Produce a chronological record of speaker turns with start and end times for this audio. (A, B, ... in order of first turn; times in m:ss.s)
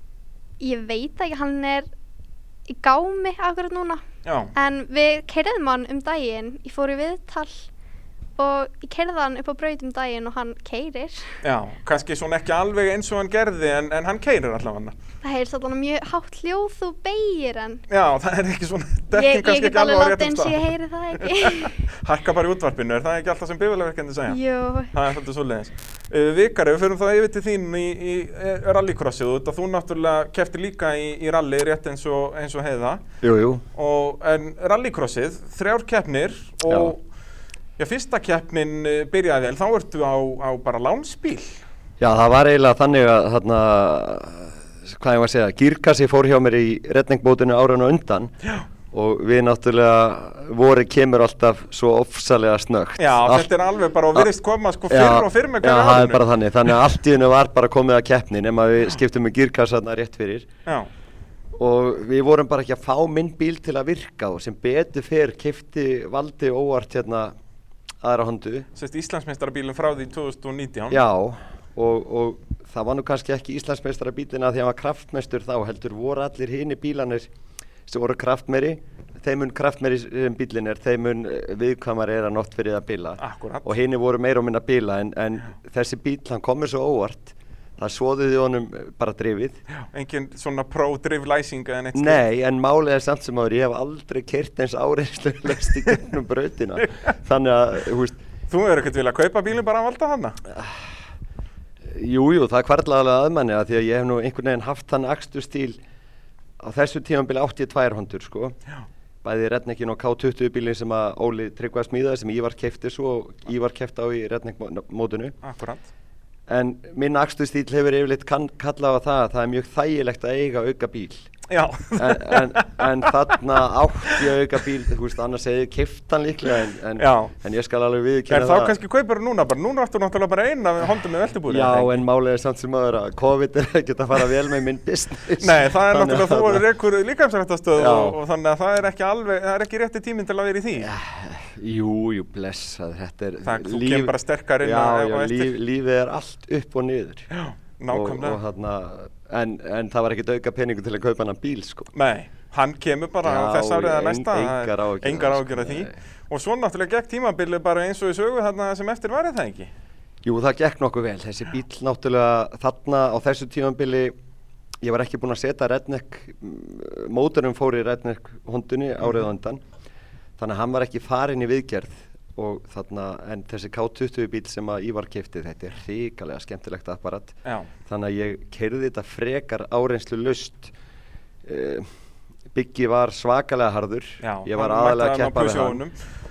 0:00.6-0:01.9 A
0:02.7-0:04.0 A
0:04.2-0:04.5 B
0:04.6-0:07.7 A
0:08.4-0:11.4 A
0:11.4-0:14.9 B
0:15.2-0:17.8 A
0:17.9-0:24.4 B
0:19.1-0:21.7 A
0:24.3-0:24.9 A
0:24.9-0:33.0 B
0:33.2-0:33.6 C
0:33.7-0:37.0 B
0:36.7-0:36.9 C
0:37.8-0:41.6 B
0:42.0-0:48.3 C
0:48.9-0:53.5 C
0:53.0-0:56.8 B
0:54.9-1:00.5 C
1:01.6-1:07.3 C
1:08.0-1:08.7 C
1:08.7-1:11.0 B
1:10.9-1:17.3 C
1:17.9-1:29.6 C
1:23.2-1:23.8 B
1:29.7-1:32.2 B
1:31.9-1:38.2 C
1:38.5-1:40.4 B
1:40.5-1:40.8 C
1:41.8-1:45.8 C
1:46.6-1:48.6 C
1:49.2-1:55.4 C
1:55.4-1:55.9 B
1:56.5-2:01.3 C
2:01.5-2:03.0 B
2:02.0-2:08.8 C
2:07.0-2:07.3 B
2:08.3-2:12.0 B
2:11.5-2:16.6 C
2:15.4-2:20.9 B
2:17.7-2:18.2 C
2:20.8-2:27.3 C
2:23.4-2:25.6 B
2:27.3-2:28.4 B
2:27.9-2:31.9 C
2:31.9-2:39.7 B
2:33.2-2:36.0 C
2:40.2-2:44.1 C
2:44.8-2:49.6 C
2:50.4-3:00.7 C
2:57.4-2:57.7 B
3:01.4-3:01.9 C
3:02.5-3:05.8 C
3:04.2-3:06.0 B